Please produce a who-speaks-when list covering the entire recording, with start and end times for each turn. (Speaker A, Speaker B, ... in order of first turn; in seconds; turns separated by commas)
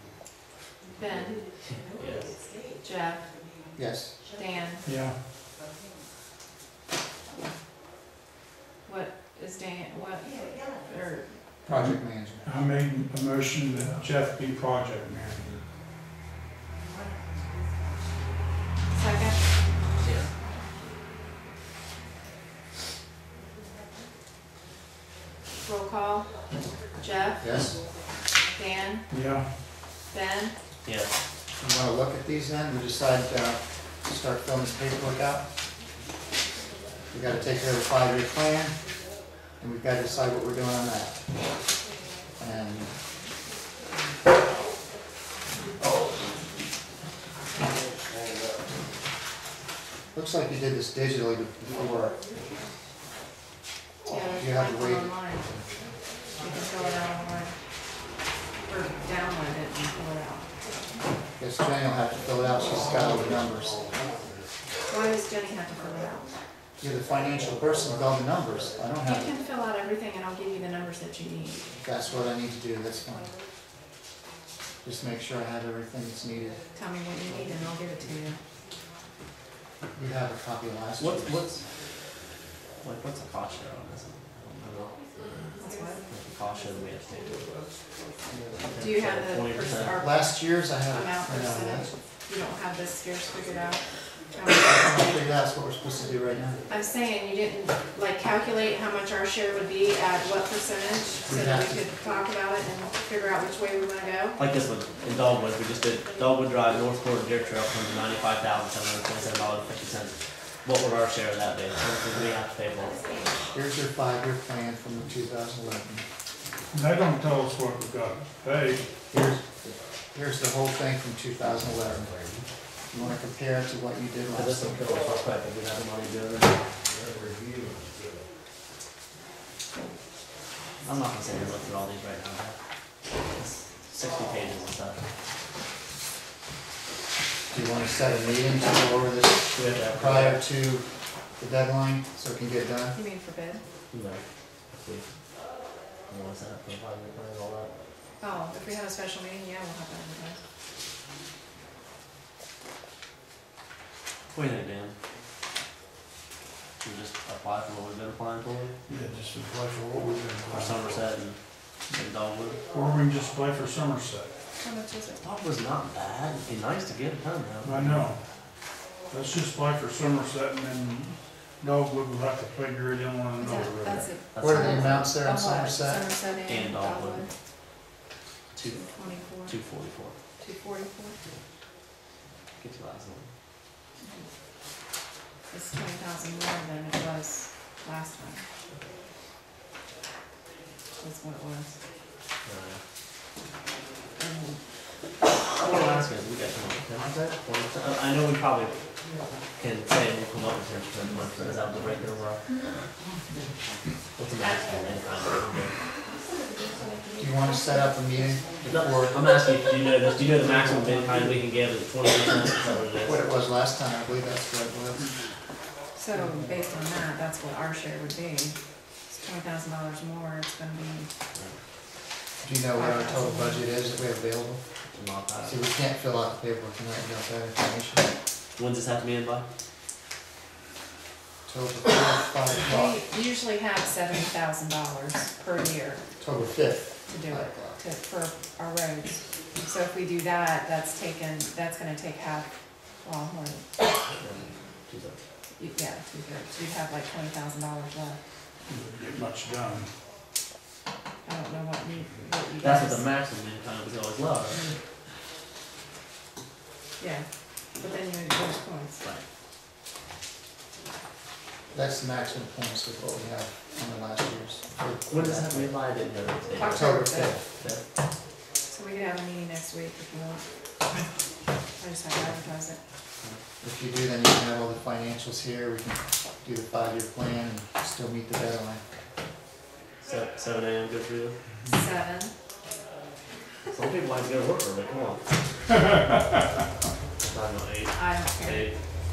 Speaker A: 0.9-1.5, Speaker B: 1.9-2.3, Speaker A: 2.8-3.4, Speaker C: 3.7-4.2, Speaker A: 4.3-4.8, Speaker D: 4.8-5.2, Speaker A: 8.8-11.3, Speaker C: 11.7-12.5, Speaker D: 11.7-15.6, Speaker A: 18.9-19.4, Speaker B: 20.0-20.3, Speaker A: 25.6-26.4, Speaker A: 27.0-27.4, Speaker C: 27.4-27.8, Speaker A: 28.5-29.1, Speaker D: 29.1-29.5, Speaker A: 30.1-30.5, Speaker C: 31.6-35.5, Speaker C: 37.1-38.8, Speaker C: 39.6-41.1, Speaker C: 42.4-42.9, Speaker C: 50.1-52.2, Speaker A: 54.0-55.5, Speaker C: 54.3-55.1, Speaker A: 56.4-57.5, Speaker A: 58.6-60.5, Speaker C: 61.4-63.8, Speaker A: 64.9-66.3, Speaker C: 66.8-69.3, Speaker A: 69.0-71.6, Speaker C: 71.8-73.3, Speaker C: 74.8-76.6, Speaker A: 76.7-78.4, Speaker C: 79.9-81.3, Speaker B: 81.0-81.6, Speaker B: 82.8-85.4, Speaker A: 85.6-86.0, Speaker B: 86.1-87.5, Speaker C: 88.3-88.7, Speaker B: 88.8-90.0, Speaker A: 88.8-90.3, Speaker C: 89.9-91.9, Speaker A: 90.9-93.8, Speaker A: 94.3-95.3, Speaker C: 94.5-96.6, Speaker A: 96.7-104.4, Speaker C: 101.3-101.8, Speaker B: 104.4-113.0, Speaker C: 113.5-116.0, Speaker D: 116.7-118.8, Speaker C: 119.1-122.2, Speaker C: 122.9-124.8, Speaker B: 124.3-126.6, Speaker B: 130.8-132.6, Speaker B: 133.3-135.0, Speaker C: 137.5-140.8, Speaker B: 139.5-140.4, Speaker C: 141.4-143.0, Speaker A: 142.9-143.6, Speaker B: 143.9-145.1, Speaker B: 146.1-147.7, Speaker A: 148.2-150.4, Speaker B: 154.3-154.9, Speaker B: 156.8-158.7, Speaker D: 158.9-160.9, Speaker B: 160.5-161.4, Speaker B: 161.9-162.6, Speaker D: 162.7-164.3, Speaker A: 164.6-165.2, Speaker B: 165.2-168.1, Speaker D: 167.6-168.2, Speaker D: 169.1-174.1, Speaker A: 173.4-177.3, Speaker B: 174.3-175.1, Speaker C: 174.4-176.1, Speaker B: 176.4-177.2, Speaker B: 178.5-178.9, Speaker A: 178.6-179.5, Speaker B: 179.4-180.1, Speaker A: 180.4-181.2, Speaker B: 182.6-183.3, Speaker A: 184.0-184.3, Speaker A: 185.5-188.4, Speaker A: 191.0-191.8, Speaker B: 192.4-192.8, Speaker A: 194.2-194.6, Speaker B: 195.6-198.7, Speaker B: 199.6-202.4, Speaker B: 204.2-205.7, Speaker C: 207.2-209.2, Speaker B: 208.6-213.2, Speaker C: 213.0-215.1, Speaker A: 215.9-218.6, Speaker A: 219.1-221.1, Speaker C: 222.4-224.6, Speaker A: 222.7-223.7, Speaker B: 224.9-225.6, Speaker C: 225.4-228.1, Speaker B: 228.6-229.4, Speaker C: 231.4-233.0, Speaker A: 232.5-236.0, Speaker C: 236.2-237.8, Speaker A: 237.1-242.5, Speaker A: 243.0-243.7, Speaker B: 244.1-245.2, Speaker A: 245.6-248.2, Speaker D: 248.7-249.9, Speaker A: 251.2-253.0, Speaker B: 252.6-254.7, Speaker A: 257.0-257.2, Speaker A: 257.8-259.0, Speaker C: 261.7-265.8, Speaker B: 265.1-267.8, Speaker A: 266.6-267.4, Speaker C: 266.6-267.4, Speaker A: 268.7-270.4, Speaker A: 271.8-272.8, Speaker C: 273.6-278.8, Speaker B: 280.0-281.3, Speaker A: 281.7-282.3, Speaker B: 283.7-285.2, Speaker B: 287.2-288.8, Speaker A: 287.9-288.7